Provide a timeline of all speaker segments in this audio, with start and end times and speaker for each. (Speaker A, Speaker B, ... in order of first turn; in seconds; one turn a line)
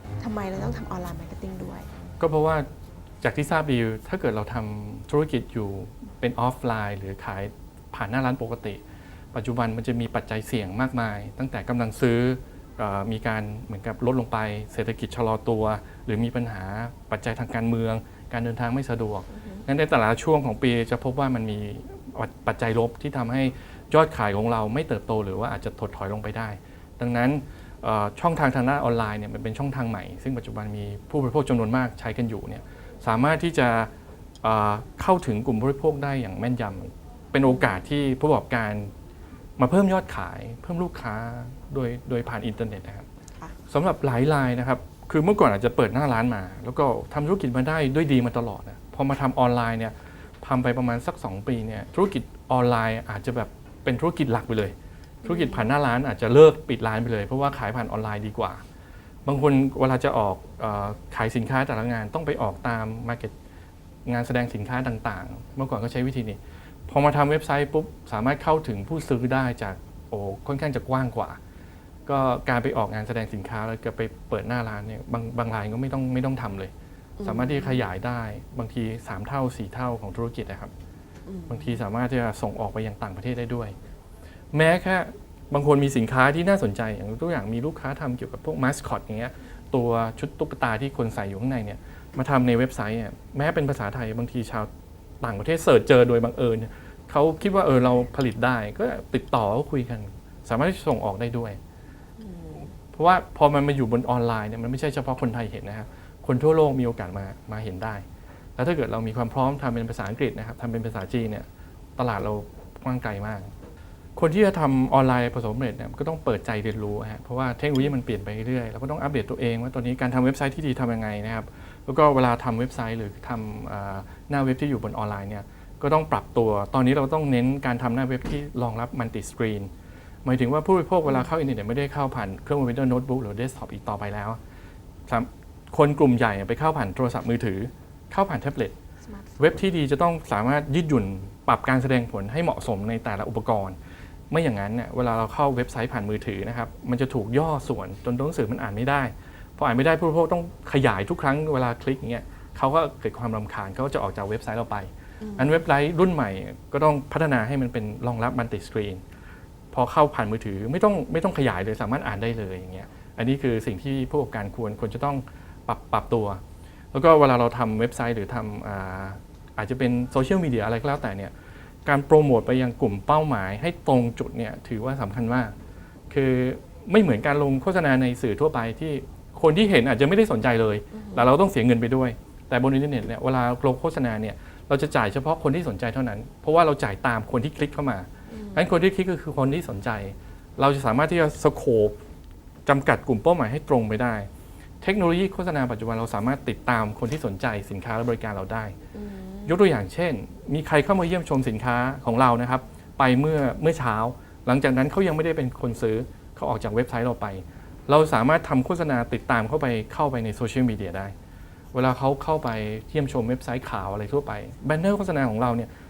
Speaker A: 0.2-1.9
Speaker B: 2.2-2.7
Speaker B: 3.2-8.8
Speaker B: 9.3-33.9
Speaker A: 19.3-19.6
Speaker B: 34.4-38.9
Speaker A: 37.5-37.8
Speaker B: 39.6-43.1
Speaker B: 43.7-58.6
Speaker A: 55.2-55.7
Speaker B: 59.3-63.3
Speaker B: 64.1-71.4
Speaker B: 72.1-76.7
Speaker A: 77.2-77.8
Speaker B: 77.2-80.7
Speaker A: 81.3-81.8
Speaker B: 81.5-83.8
Speaker B: 84.5-94.7
Speaker B: 95.2-101.6
Speaker A: 102.2-102.7
Speaker B: 102.9-108.0
Speaker B: 108.6-113.5
Speaker B: 114.2-129.7
Speaker B: 130.2-134.4
Speaker B: 135.1-138.8
Speaker A: 139.1-139.4
Speaker B: 139.4-143.8
Speaker B: 144.3-159.0
Speaker A: 155.2-155.6
Speaker B: 159.7-166.4
Speaker B: 166.9-171.3
Speaker B: 171.8-175.5
Speaker B: 176.1-192.0
Speaker A: 180.9-181.3
Speaker A: 188.3-188.7
Speaker B: 192.7-194.3
Speaker B: 194.8-198.8
Speaker A: 198.9-199.6
Speaker B: 199.4-211.1
Speaker B: 211.7-215.7